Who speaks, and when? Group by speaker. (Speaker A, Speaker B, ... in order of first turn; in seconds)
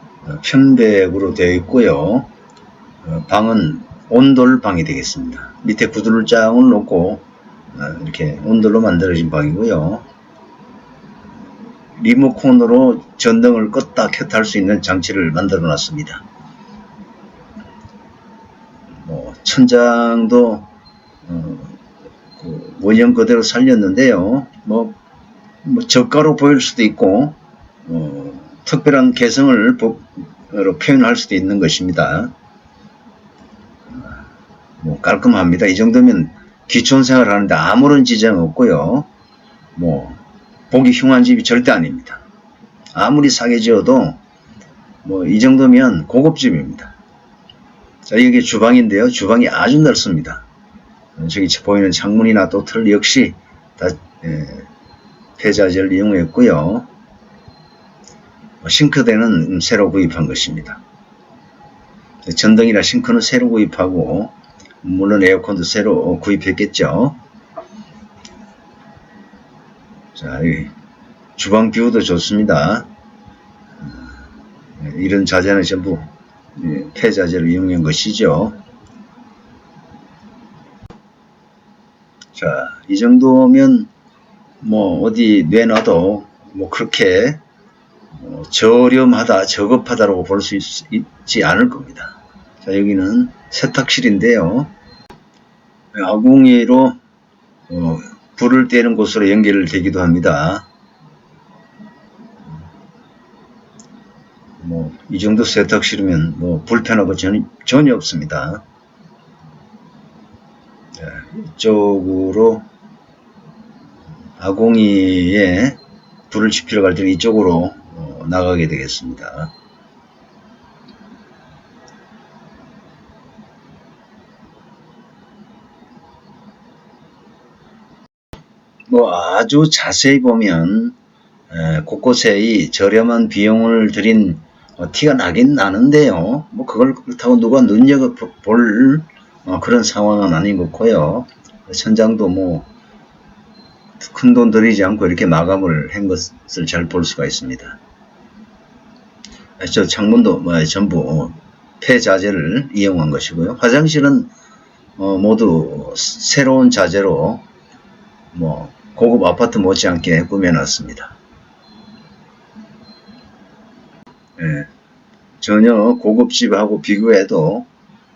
Speaker A: 0.3-2.3, 3.0-10.1, 12.0-16.2, 19.0-20.7, 21.3-21.8, 22.4-25.0, 25.6-32.3, 34.8-39.1, 39.8-40.2, 40.7-42.2, 43.0-44.2, 45.0-47.0, 48.1-50.5, 51.2-54.7, 55.4-56.9, 58.6-60.8, 62.3-67.2, 70.2-70.7, 71.4-72.9, 74.8-78.6, 82.3-83.9, 84.6-87.4, 88.2-94.7, 95.9-97.0, 97.7-100.7, 104.6-108.6, 111.0-112.7, 114.4-115.8, 116.3-119.5, 128.9-130.9, 131.5-142.7, 144.0-147.8, 149.6-154.3, 155.0-157.4, 158.3-161.2, 164.4-164.7, 165.4-167.7